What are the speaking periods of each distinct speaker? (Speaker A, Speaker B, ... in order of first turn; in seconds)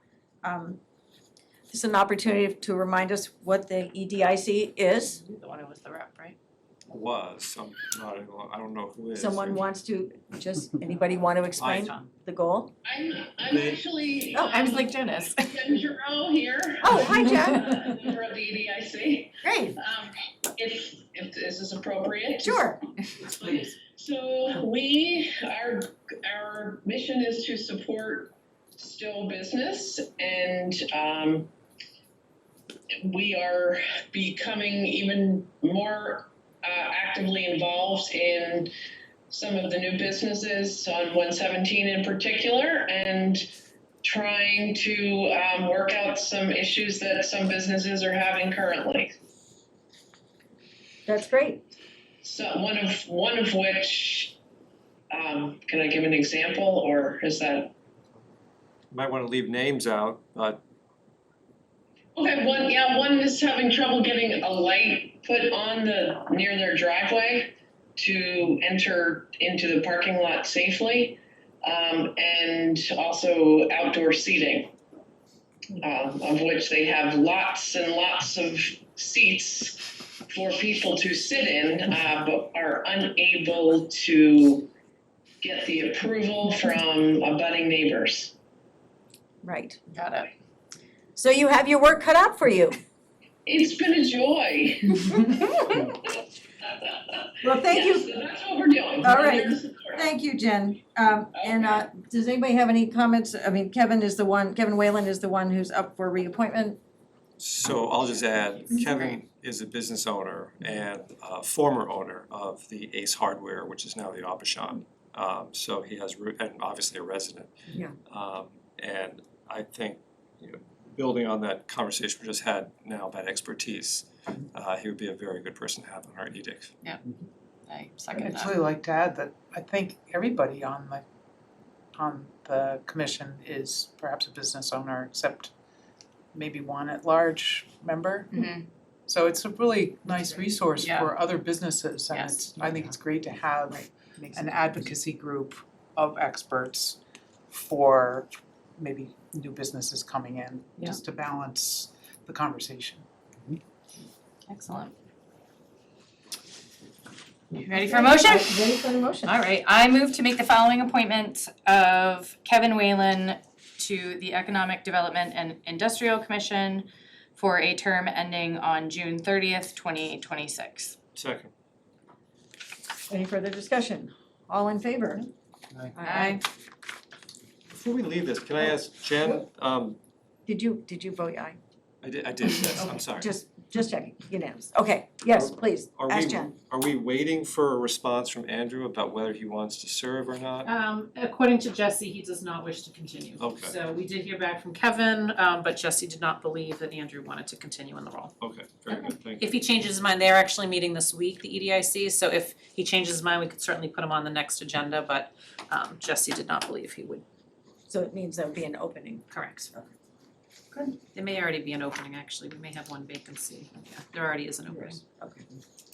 Speaker A: 0.4-0.8, 1.7-5.2, 9.1-12.7, 14.3-14.7, 16.8-17.7, 19.4-19.8, 22.4-22.8, 51.1-51.7, 89.4-89.8, 91.2-92.8, 95.3-95.6, 97.4-98.1, 99.0-106.8, 117.7-118.0, 157.7-159.4, 173.1-175.3, 175.9-176.4, 180.5-181.6, 183.2-186.5, 207.9-209.9, 215.2-215.4
Speaker B: 5.1-6.4, 14.5-15.5, 89.9-90.3, 127.7-128.3, 140.8-141.1, 142.1-142.6, 167.4-167.7, 190.7-198.3, 198.9-207.2, 209.3-209.7, 210.7-215.0
Speaker C: 6.9-9.6, 11.6-11.9, 58.9-60.6, 107.4-117.5, 118.1-126.7, 171.2-171.5, 177.7-180.0, 182.0-183.3, 185.3-190.7, 193.4-193.8, 198.4-199.5
Speaker D: 12.8-31.5, 33.0-38.7, 39.3-43.5, 44.0-49.1, 52.2-54.4, 55.1-57.7, 62.2-74.7, 75.8-84.7, 85.4-88.3, 93.5-95.9, 97.7-100.1, 101.3-101.8
Speaker E: 127.8-128.5, 154.5-154.9, 157.7-158.5, 159.3-163.4, 164.0-166.9, 167.4-170.9, 176.1-176.4
Speaker F: 128.1-131.0, 131.9-135.5, 136.3-138.5, 139.1-147.0, 147.5-153.1